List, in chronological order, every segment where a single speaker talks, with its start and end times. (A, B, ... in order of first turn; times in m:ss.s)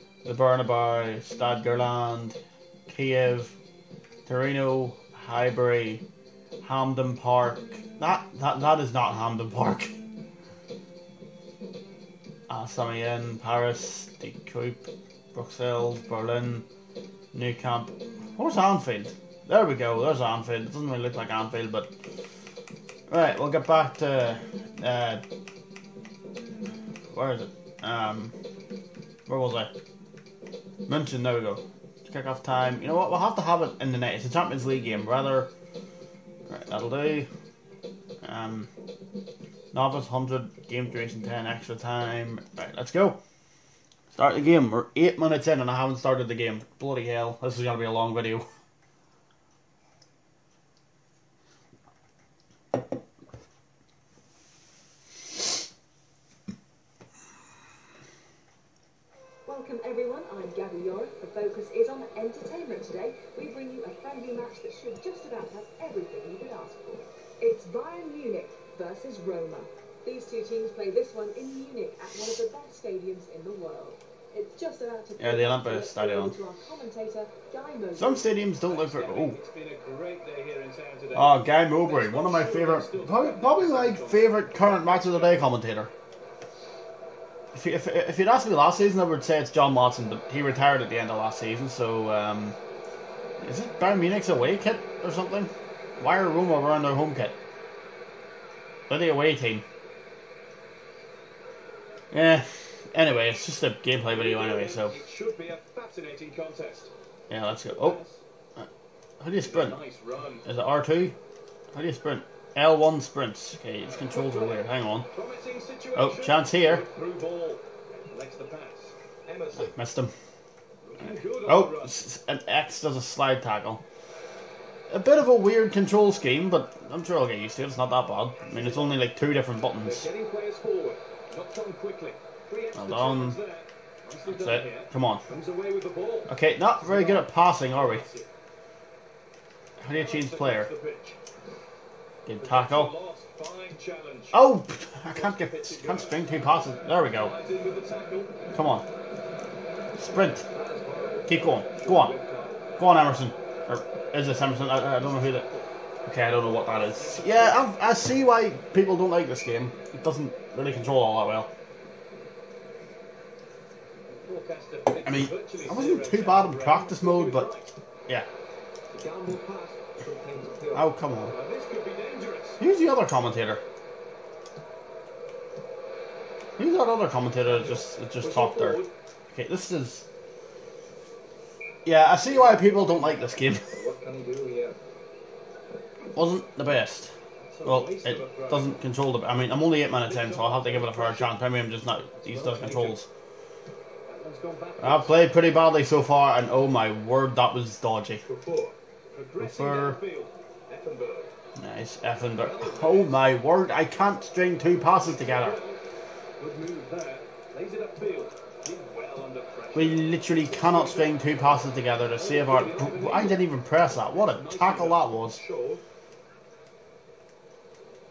0:00.2-0:03.5 A
0:04.2-0:06.0 A
0:06.6-0:09.9 A
0:12.5-0:16.6 A
0:17.3-0:21.9 A
0:23.1-0:25.2 A
0:27.1-0:28.3 A
0:29.3-0:29.7 A
0:30.8-0:35.5 A
0:36.5-0:37.3 A
0:38.2-0:38.7 A
0:39.7-0:43.2 A
0:44.1-0:48.4 A
0:59.4-1:18.4 B
1:15.2-1:16.4 A
1:18.0-1:19.4 A
1:18.6-1:25.5 C
1:21.1-1:25.9 A
1:27.5-1:32.6 A
1:33.4-1:37.4 A
1:38.9-1:39.6 A
1:42.1-1:44.9 A
1:44.1-1:46.9 C
1:47.3-1:48.0 A
1:47.7-1:48.2 C
1:49.2-1:49.8 A
1:49.4-1:50.4 C
1:50.4-1:51.2 A
1:51.7-1:55.1 A
1:53.8-1:59.7 C
1:55.9-1:56.8 A
1:59.6-2:00.1 A
2:00.8-2:01.9 C
2:01.0-2:03.8 A
2:04.9-2:10.1 A
2:08.4-2:09.0 C
2:09.8-2:18.3 C
2:12.7-2:13.4 A
2:14.3-2:15.2 A
2:16.3-2:18.0 A
2:19.8-2:20.7 A
2:19.9-2:21.2 C
2:22.2-2:22.9 A
2:22.4-2:24.4 C
2:24.3-2:27.3 A
2:25.1-2:28.4 C
2:28.5-2:28.8 A
2:30.0-2:30.4 A
2:30.5-2:32.7 D
2:31.2-2:32.1 A
2:32.8-2:35.5 A
2:34.8-2:35.7 C
2:36.0-2:41.5 A
2:37.0-2:37.7 C
2:44.1-2:47.7 C
2:45.0-2:47.5 A
2:48.9-2:51.0 D
2:50.7-2:51.3 A
2:51.3-2:52.6 C
2:52.6-2:53.6 A
2:56.6-3:00.0 A
2:58.2-2:58.9 C
3:01.8-3:03.7 A
3:02.2-3:04.8 D
3:02.6-3:03.1 C
3:06.1-3:07.1 A
3:07.4-3:08.8 C
3:07.6-3:13.1 A
3:10.0-3:11.3 C
3:12.2-3:13.0 C
3:14.0-3:15.7 C
3:14.8-3:18.2 A
3:18.2-3:18.8 D
3:19.1-3:20.3 C
3:19.4-3:20.0 A
3:20.7-3:21.3 D
3:21.6-3:25.6 A
3:22.4-3:23.2 C
3:24.9-3:25.8 C
3:26.4-3:31.5 C
3:29.7-3:35.4 A
3:32.1-3:33.5 C
3:34.1-3:35.0 C
3:35.3-3:35.8 D